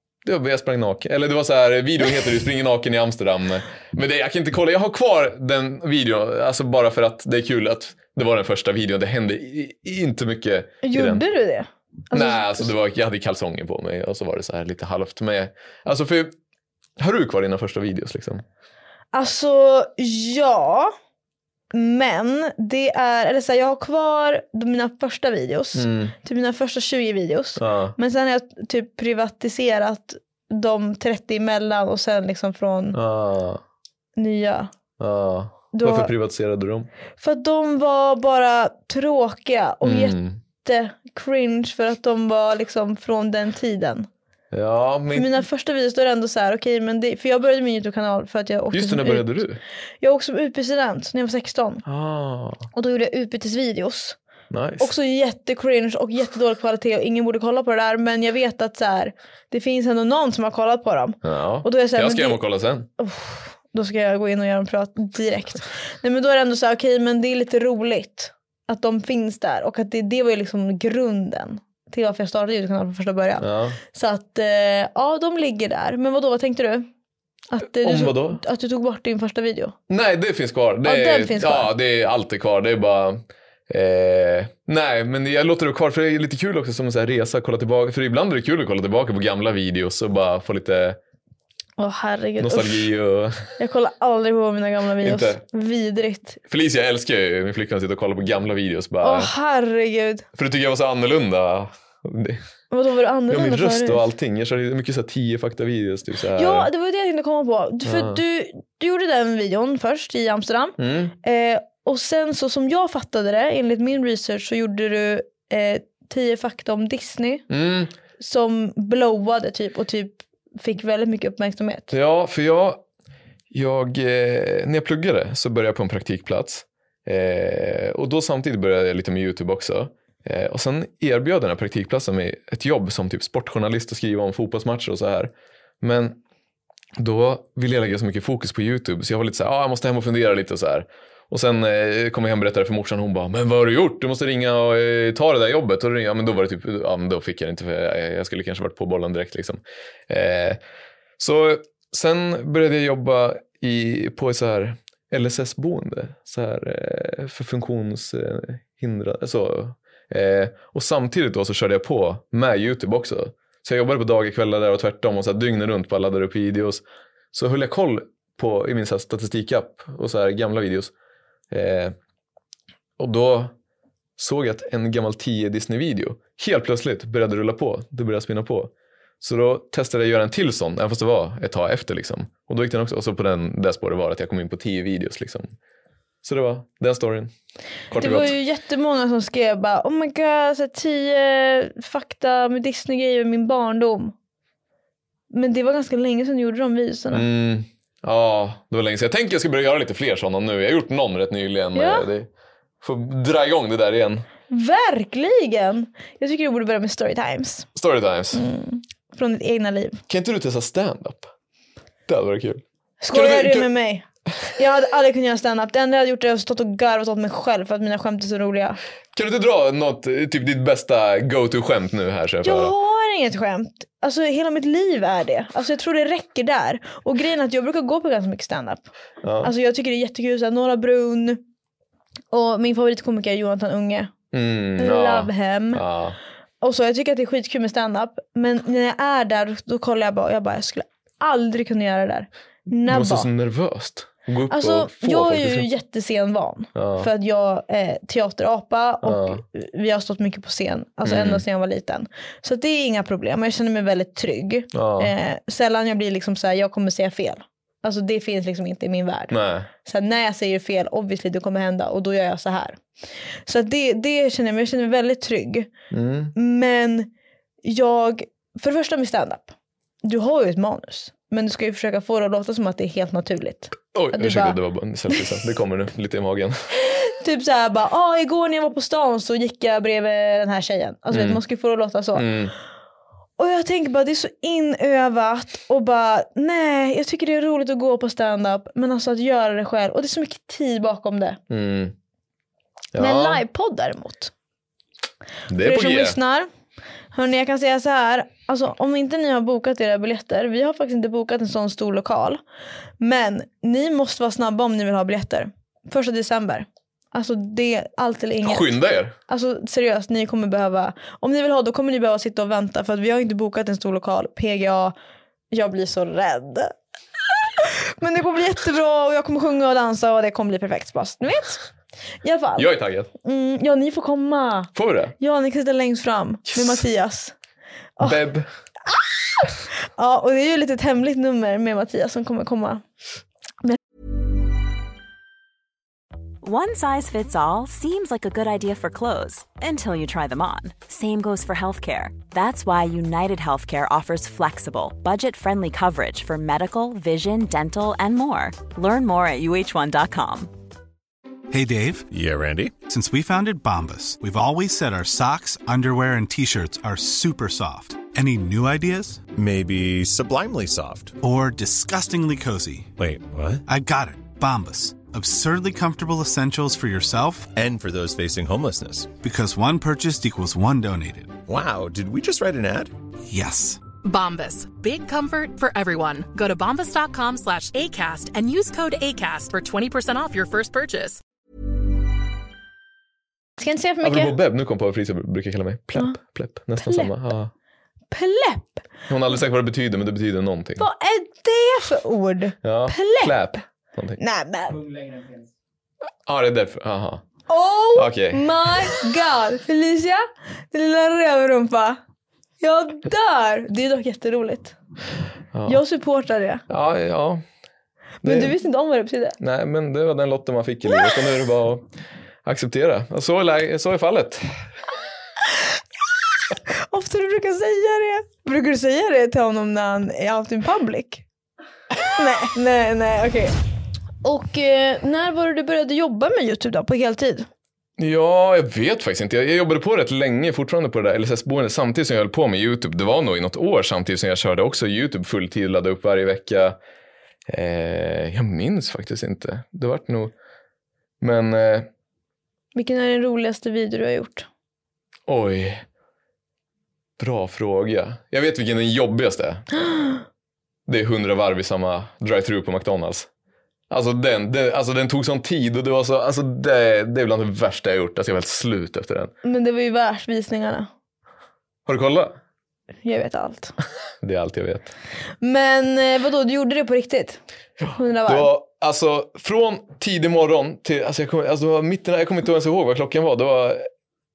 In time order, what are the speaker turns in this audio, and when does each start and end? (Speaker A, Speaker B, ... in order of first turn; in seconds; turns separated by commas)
Speaker A: 0.2-11.2, Speaker B: 10.8-12.7, Speaker A: 12.1-16.3, Speaker A: 17.0-18.4, Speaker B: 19.1-20.9, Speaker B: 21.7-33.0, Speaker A: 25.7-26.1, Speaker A: 27.6-27.9, Speaker A: 32.9-33.6, Speaker B: 34.2-34.7, Speaker A: 35.0-36.9, Speaker B: 35.7-36.1, Speaker B: 37.2-44.1, Speaker A: 39.8-40.4, Speaker A: 44.5-45.4, Speaker B: 45.1-49.4, Speaker A: 48.7-49.6, Speaker B: 50.0-51.8, Speaker A: 51.9-52.7, Speaker B: 52.7-54.2, Speaker A: 54.5-54.9, Speaker B: 54.8-62.4, Speaker A: 61.2-62.9, Speaker B: 63.0-76.9, Speaker A: 73.4-73.8, Speaker B: 77.5-79.8, Speaker A: 77.8-78.4, Speaker A: 79.9-91.0, Speaker B: 80.8-81.7, Speaker B: 91.8-92.9, Speaker A: 92.4-93.4, Speaker B: 93.6-96.4, Speaker A: 95.0-95.4, Speaker A: 96.5-99.3, Speaker B: 99.0-100.2, Speaker A: 100.3-102.4, Speaker B: 102.7-104.0, Speaker A: 103.3-106.7, Speaker B: 106.3-117.5, Speaker A: 107.8-108.2, Speaker A: 110.8-111.1, Speaker A: 117.5-117.9, Speaker B: 118.2-121.9, Speaker A: 121.9-122.8, Speaker A: 123.5-136.2, Speaker A: 137.0-150.6, Speaker A: 151.2-170.9, Speaker A: 171.5-171.9, Speaker A: 173.0-173.5, Speaker A: 174.2-185.5, Speaker A: 186.2-187.3, Speaker A: 187.9-188.4, Speaker B: 187.9-194.1, Speaker B: 195.3-197.2, Speaker A: 197.1-202.3, Speaker B: 201.7-202.1, Speaker A: 202.8-204.2, Speaker B: 204.5-207.7, Speaker A: 207.7-208.4, Speaker B: 208.3-210.0, Speaker A: 210.1-211.3, Speaker A: 212.1-213.7, Speaker B: 213.0-218.8, Speaker A: 219.1-222.7, Speaker B: 222.4-228.9, Speaker A: 229.2-229.5, Speaker B: 229.4-231.4, Speaker B: 232.3-234.1, Speaker A: 234.3-236.2, Speaker B: 234.8-235.8, Speaker B: 236.6-243.3, Speaker A: 242.7-245.7, Speaker B: 244.5-262.8, Speaker A: 246.8-247.1, Speaker A: 249.0-249.4, Speaker A: 251.0-251.4, Speaker A: 254.7-255.1, Speaker A: 259.3-259.7, Speaker B: 263.4-265.7, Speaker A: 265.9-266.3, Speaker B: 266.4-267.1, Speaker B: 267.6-274.6, Speaker A: 273.9-276.6, Speaker B: 276.9-282.4, Speaker A: 281.1-281.4, Speaker A: 282.1-282.5, Speaker B: 283.4-291.4, Speaker A: 291.5-291.9, Speaker A: 292.9-293.4, Speaker B: 292.9-294.3, Speaker A: 295.5-296.2, Speaker B: 295.6-296.5, Speaker B: 297.1-302.4, Speaker B: 303.0-308.7, Speaker A: 308.4-309.1, Speaker B: 309.3-314.9, Speaker B: 315.5-316.7, Speaker B: 317.6-321.6, Speaker B: 322.2-322.7, Speaker A: 322.6-323.1, Speaker B: 323.2-327.3, Speaker A: 324.8-325.1, Speaker A: 326.5-326.8, Speaker A: 328.0-328.5, Speaker B: 328.9-332.8, Speaker C: 336.4-350.5, Speaker D: 351.5-352.1, Speaker E: 352.1-352.8, Speaker D: 352.9-359.2, Speaker E: 359.3-361.2, Speaker D: 361.2-362.9, Speaker E: 363.0-363.6, Speaker D: 363.7-367.5, Speaker E: 367.5-369.1, Speaker D: 369.2-371.4, Speaker E: 371.5-372.9, Speaker D: 373.3-373.8, Speaker F: 374.0-381.2, Speaker B: 383.6-384.4, Speaker A: 384.0-387.5, Speaker B: 386.8-387.1, Speaker B: 388.1-388.8, Speaker A: 389.1-390.9, Speaker B: 390.8-393.5, Speaker A: 392.6-394.2, Speaker B: 394.2-395.2, Speaker A: 396.2-397.2, Speaker B: 397.5-402.0, Speaker A: 397.9-398.7, Speaker B: 402.6-404.8, Speaker A: 405.5-405.8, Speaker B: 405.7-406.6, Speaker A: 406.7-407.4, Speaker A: 408.2-408.6, Speaker B: 408.2-409.4, Speaker A: 409.4-411.9, Speaker A: 412.4-414.6, Speaker B: 416.5-421.2, Speaker B: 422.0-423.5, Speaker B: 424.2-427.5, Speaker A: 428.0-436.8, Speaker A: 437.5-440.3, Speaker A: 441.2-441.9, Speaker B: 442.7-444.5, Speaker A: 445.3-445.8, Speaker A: 447.2-449.6, Speaker A: 450.9-453.3, Speaker A: 453.9-459.3, Speaker B: 459.4-460.9, Speaker A: 461.9-462.4, Speaker B: 463.0-463.7, Speaker A: 464.2-464.9, Speaker B: 465.4-467.4, Speaker A: 467.8-473.9, Speaker B: 467.9-468.5